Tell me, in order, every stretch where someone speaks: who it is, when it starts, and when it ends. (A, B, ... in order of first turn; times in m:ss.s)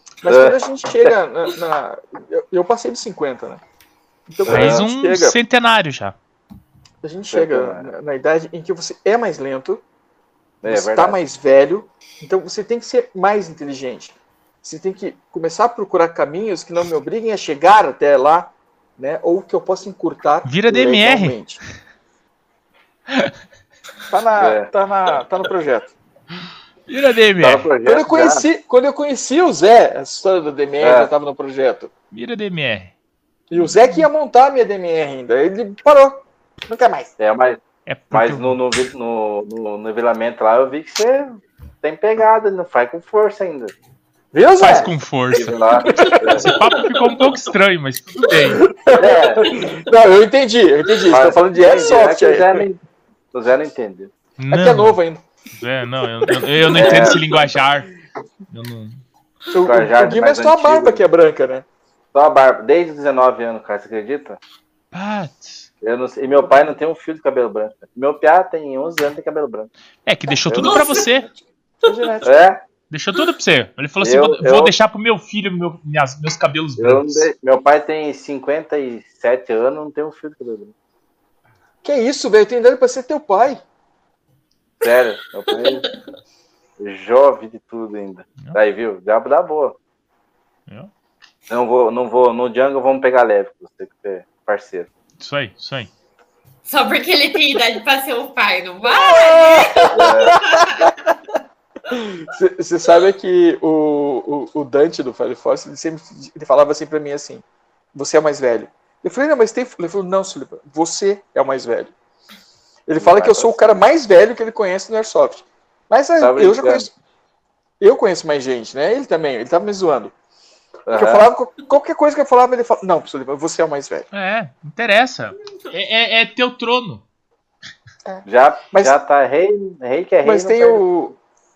0:00.2-0:03.6 A
0:00.2-0:01.1 B
0:04.3-0:05.4 A
0:04.4-0:04.8 B
0:04.4-0:06.2 C
0:07.0-0:09.8 A
0:07.3-0:07.9 B
0:10.6-0:11.2 B
0:10.6-0:21.6 A
0:20.4-0:21.4 C
0:24.1-0:25.9 A
0:24.3-0:24.7 B
0:26.9-0:27.7 C
0:27.4-0:28.4 B
0:27.8-0:31.9 A
0:30.8-0:31.1 B
0:32.1-0:32.9 C
0:33.5-0:37.1 A
0:37.2-0:37.6 B
0:37.8-0:38.6 C
0:38.1-0:43.7 B
0:44.3-0:44.9 A
0:44.6-0:45.6 C
0:45.3-0:46.6 B
0:45.8-0:46.5 A
0:45.9-0:46.4 D
0:46.4-0:48.6 C
0:48.4-0:52.7 A
0:48.9-0:49.6 B
0:51.1-0:52.8 B
0:53.3-0:54.1 B
0:54.4-0:55.0 C
0:54.5-0:55.2 A
0:55.6-0:57.9 C
0:56.7-0:57.2 A
0:56.7-0:57.2 B
0:58.5-0:59.0 C
0:59.5-1:01.6 A
0:59.6-1:01.0 B
1:02.1-1:04.4 B
1:04.9-1:05.7 C
1:05.8-1:09.7 B
1:10.0-1:11.3 C
1:10.5-1:10.9 B
1:10.6-1:11.1 D
1:11.8-1:12.1 D
1:11.8-1:12.4 A
1:12.2-1:12.6 B
1:12.9-1:17.3 C
1:14.0-1:14.7 B
1:16.8-1:20.7 B
1:21.8-1:23.6 A
1:24.8-1:25.9 B
1:25.5-1:26.0 D
1:26.8-1:29.8 B
1:31.5-1:34.9 B
1:35.2-1:35.9 C
1:36.6-1:40.9 D
1:38.8-1:40.9 A
1:39.9-1:40.4 B
1:41.9-1:51.9 A
1:52.9-1:56.9 A
1:53.0-1:53.8 B
1:56.2-1:56.9 B
1:57.8-2:00.1 A
2:00.9-2:01.3 B
2:00.9-2:04.1 A
2:04.1-2:07.0 C
2:08.0-2:09.0 A
2:08.2-2:10.8 B
2:10.2-2:11.2 A